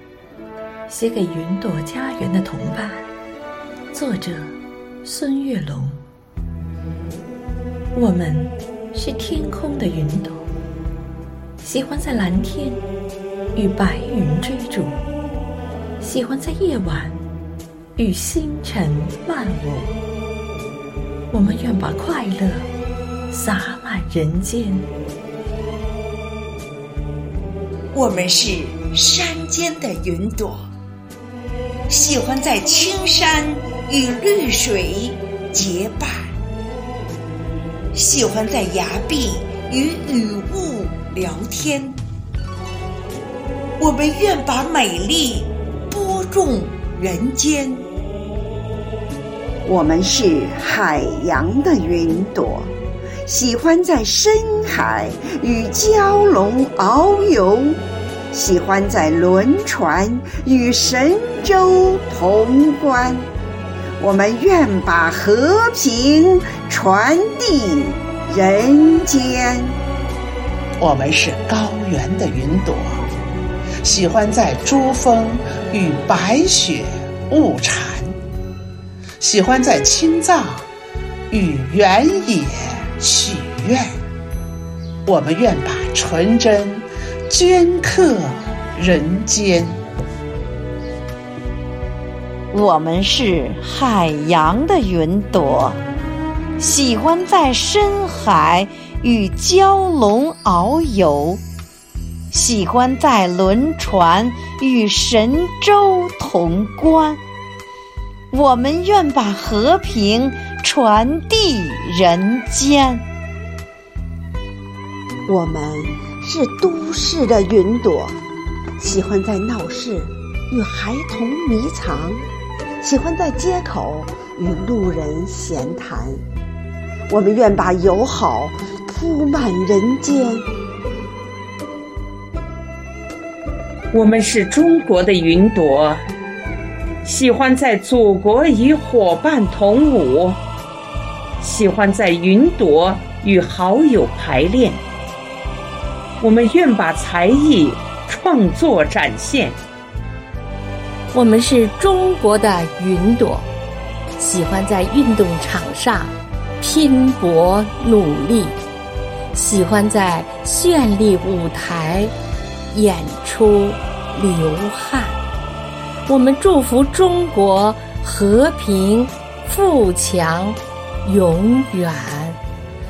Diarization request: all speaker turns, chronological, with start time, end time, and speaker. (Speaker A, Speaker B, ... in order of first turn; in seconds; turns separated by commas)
Speaker A: 0.9-3.1, Speaker A: 3.9-6.0, Speaker A: 7.9-10.5, Speaker A: 11.6-12.8, Speaker A: 13.5-15.0, Speaker A: 16.0-17.2, Speaker A: 17.9-19.9, Speaker A: 21.3-22.7, Speaker A: 23.3-24.9, Speaker B: 28.0-30.4, Speaker C: 28.2-30.5, Speaker C: 31.9-35.0, Speaker B: 31.9-36.3, Speaker C: 35.5-36.2, Speaker C: 37.9-41.9, Speaker B: 38.0-41.4, Speaker C: 43.8-47.8, Speaker C: 49.6-52.7, Speaker C: 53.2-63.3, Speaker C: 64.0-69.7, Speaker D: 70.8-73.0, Speaker D: 73.8-78.1, Speaker D: 79.2-80.7, Speaker D: 81.3-83.8, Speaker D: 85.0-89.8, Speaker E: 92.5-95.8, Speaker E: 96.6-101.4, Speaker E: 102.3-107.2, Speaker E: 108.3-113.0, Speaker C: 115.3-118.2, Speaker C: 118.8-122.2, Speaker C: 122.8-126.2, Speaker C: 127.1-130.5, Speaker F: 133.9-136.0, Speaker F: 137.0-140.4, Speaker F: 141.4-144.8, Speaker F: 146.2-149.6, Speaker G: 151.1-153.5, Speaker G: 154.2-158.6, Speaker G: 159.3-162.1, Speaker G: 162.7-165.2, Speaker G: 166.1-172.4